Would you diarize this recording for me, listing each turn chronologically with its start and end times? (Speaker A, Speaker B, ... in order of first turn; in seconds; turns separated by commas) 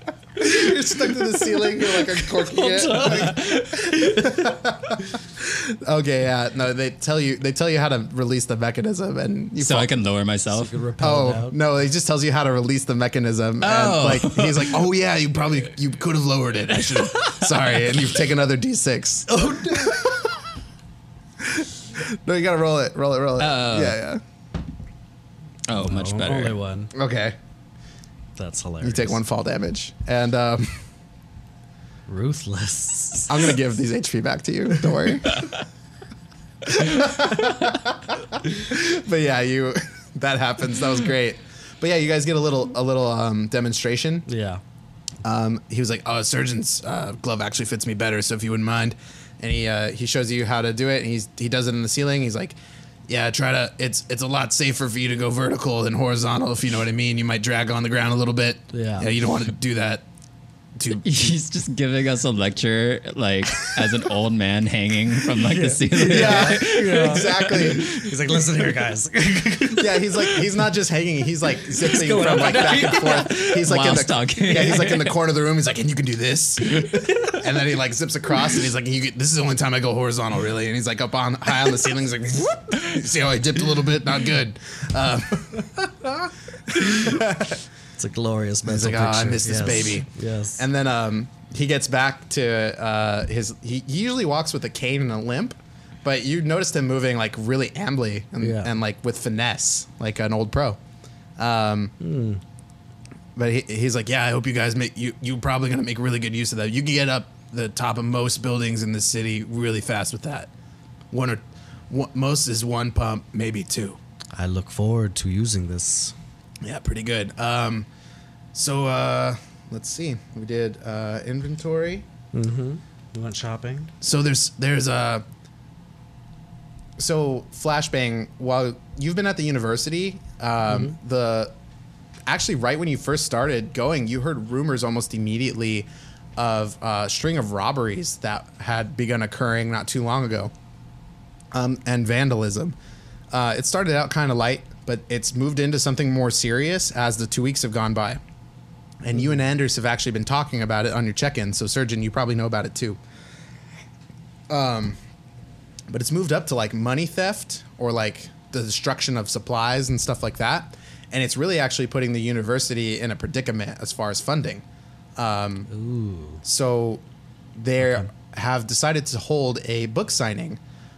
Speaker A: 0.4-9.9, Speaker B: 2.6-3.4, Speaker C: 2.8-3.9, Speaker B: 4.2-4.5, Speaker C: 9.6-10.8, Speaker B: 10.5-11.6, Speaker A: 11.0-20.4, Speaker C: 13.6-14.8, Speaker C: 16.9-18.0, Speaker B: 19.3-20.0, Speaker A: 21.4-24.2, Speaker C: 23.4-24.0, Speaker C: 25.7-26.6, Speaker B: 25.8-26.9, Speaker A: 26.9-27.4, Speaker B: 28.4-29.2, Speaker A: 28.8-30.8, Speaker B: 32.1-33.4, Speaker A: 33.3-35.5, Speaker A: 36.7-44.3, Speaker B: 44.3-44.6, Speaker A: 45.2-60.0, Speaker B: 58.7-59.1, Speaker A: 60.8-61.3, Speaker C: 61.0-68.1, Speaker B: 65.4-70.3, Speaker A: 66.0-67.9, Speaker A: 69.7-87.6, Speaker B: 71.8-73.4, Speaker C: 72.9-75.2, Speaker B: 88.0-90.6, Speaker A: 88.7-100.8, Speaker B: 98.4-98.7, Speaker A: 101.4-101.9, Speaker B: 102.0-102.4, Speaker A: 103.4-110.5, Speaker A: 111.1-114.0, Speaker B: 114.3-116.1, Speaker A: 116.6-117.9, Speaker A: 118.5-122.1, Speaker B: 122.3-123.9, Speaker A: 124.0-125.2, Speaker A: 127.0-131.5, Speaker B: 130.7-130.9, Speaker A: 132.3-140.5, Speaker A: 141.5-142.8, Speaker A: 143.3-148.2, Speaker A: 149.0-153.0, Speaker A: 154.5-155.0, Speaker A: 155.9-164.7, Speaker A: 165.2-165.7, Speaker B: 165.7-166.4, Speaker A: 166.4-167.0, Speaker A: 167.6-170.6